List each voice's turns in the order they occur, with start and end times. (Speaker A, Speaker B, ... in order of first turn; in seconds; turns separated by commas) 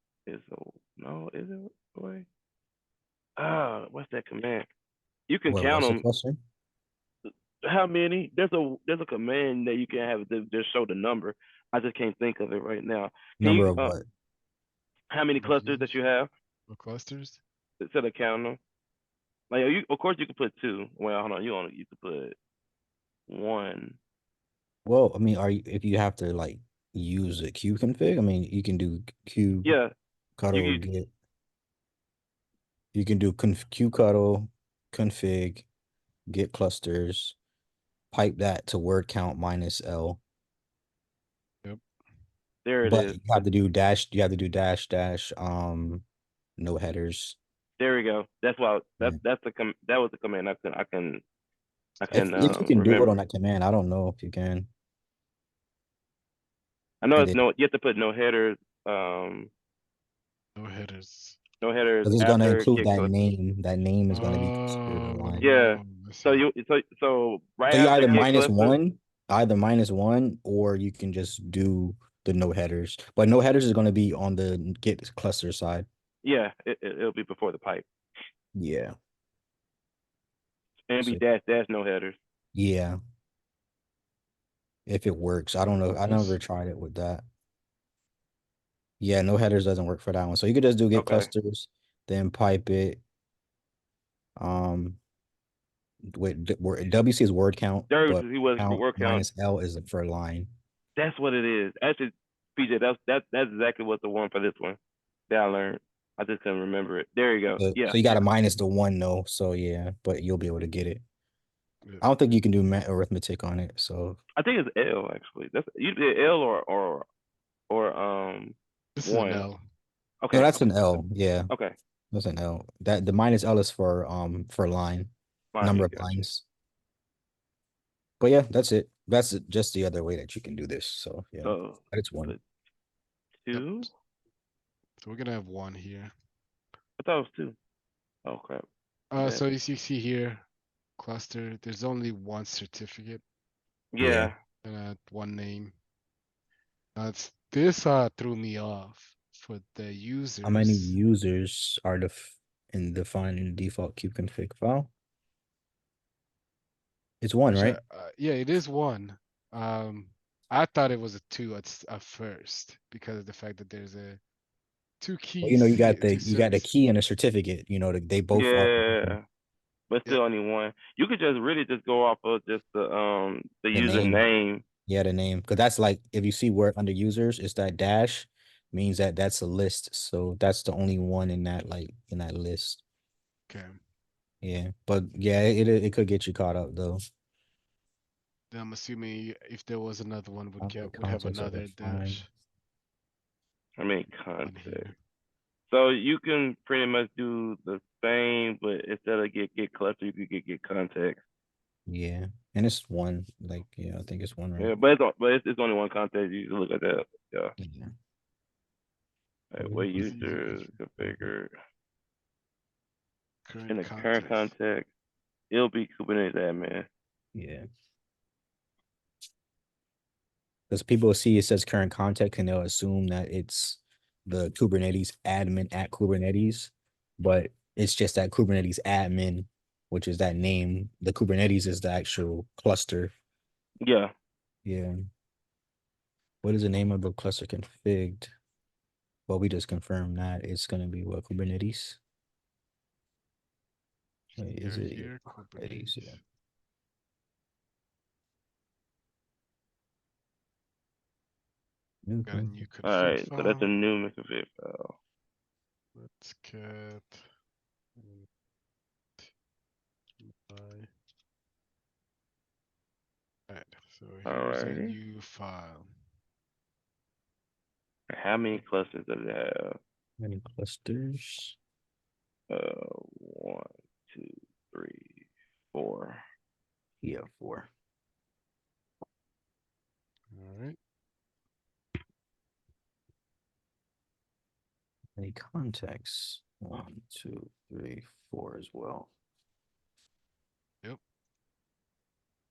Speaker A: 0.3-2.3, Speaker A: 3.4-4.7, Speaker A: 5.3-6.0, Speaker B: 5.5-6.4, Speaker A: 7.3-13.9, Speaker B: 13.4-14.1, Speaker A: 15.1-16.3, Speaker C: 15.4-16.0, Speaker C: 16.7-17.4, Speaker A: 17.8-18.6, Speaker A: 19.5-22.4, Speaker A: 23.3-24.0, Speaker B: 24.9-29.7, Speaker A: 29.6-29.9, Speaker B: 30.4-31.1, Speaker A: 30.5-30.9, Speaker B: 32.9-35.7, Speaker B: 36.3-37.4, Speaker B: 38.1-40.2, Speaker A: 42.6-43.2, Speaker B: 42.8-46.0, Speaker B: 46.6-47.4, Speaker A: 47.8-51.2, Speaker A: 52.0-53.2, Speaker C: 52.1-52.5, Speaker B: 52.1-54.7, Speaker A: 57.0-59.5, Speaker C: 60.6-61.4, Speaker A: 61.6-63.2, Speaker B: 62.0-65.5, Speaker C: 64.1-66.5, Speaker A: 65.4-68.8, Speaker B: 67.7-75.9, Speaker A: 76.2-77.9, Speaker B: 78.5-79.0, Speaker A: 80.9-82.2, Speaker B: 82.5-83.0, Speaker B: 84.9-87.2, Speaker C: 86.0-86.4, Speaker B: 89.0-93.0, Speaker A: 90.9-91.3, Speaker B: 94.4-95.0, Speaker B: 96.2-100.5, Speaker A: 97.9-99.3, Speaker A: 101.0-108.0, Speaker B: 107.6-111.0, Speaker C: 111.8-112.1, Speaker B: 112.0-114.2, Speaker A: 114.4-117.1, Speaker A: 117.7-119.5, Speaker C: 119.0-119.6, Speaker A: 120.2-121.8, Speaker B: 120.3-121.5, Speaker B: 122.1-126.5, Speaker A: 125.5-126.3, Speaker B: 128.2-132.3, Speaker A: 131.4-132.4, Speaker A: 133.4-133.9, Speaker C: 133.5-133.9, Speaker C: 135.0-136.1, Speaker A: 137.0-137.6, Speaker A: 138.2-138.7, Speaker C: 139.1-140.5, Speaker A: 139.2-139.4, Speaker C: 141.0-143.2, Speaker A: 143.9-144.4, Speaker B: 144.0-144.3, Speaker C: 144.6-145.8, Speaker C: 147.0-151.0, Speaker B: 150.4-154.9, Speaker B: 157.2-157.8, Speaker C: 157.5-164.2, Speaker C: 165.0-166.7, Speaker B: 165.4-169.2, Speaker A: 168.3-169.2, Speaker A: 169.9-174.6, Speaker B: 173.7-174.2, Speaker B: 174.9-182.8, Speaker C: 183.5-183.8, Speaker B: 184.4-187.0, Speaker C: 188.5-192.3, Speaker B: 190.6-192.2, Speaker A: 193.8-194.9, Speaker C: 194.4-195.0, Speaker A: 195.7-201.2, Speaker B: 201.9-204.7, Speaker A: 204.6-207.5, Speaker B: 207.6-207.9, Speaker A: 209.5-211.5, Speaker B: 209.6-210.4, Speaker C: 209.9-210.8, Speaker B: 211.0-211.3, Speaker C: 213.5-214.5, Speaker A: 213.7-214.9, Speaker A: 215.5-216.9, Speaker B: 217.3-217.7, Speaker B: 220.7-233.1, Speaker A: 233.8-234.1, Speaker B: 234.7-234.9, Speaker B: 236.4-238.3, Speaker B: 239.3-242.0, Speaker C: 244.3-246.2, Speaker B: 244.4-246.2, Speaker B: 252.1-252.6, Speaker C: 252.3-253.7, Speaker A: 252.8-254.9, Speaker C: 255.9-257.3, Speaker C: 258.0-258.3, Speaker C: 260.2-260.9, Speaker C: 263.5-266.0, Speaker A: 264.3-265.0, Speaker A: 268.1-269.8, Speaker B: 270.2-271.6, Speaker A: 272.5-275.1, Speaker A: 275.7-276.2, Speaker B: 277.0-277.7, Speaker C: 280.3-280.8, Speaker B: 285.2-289.1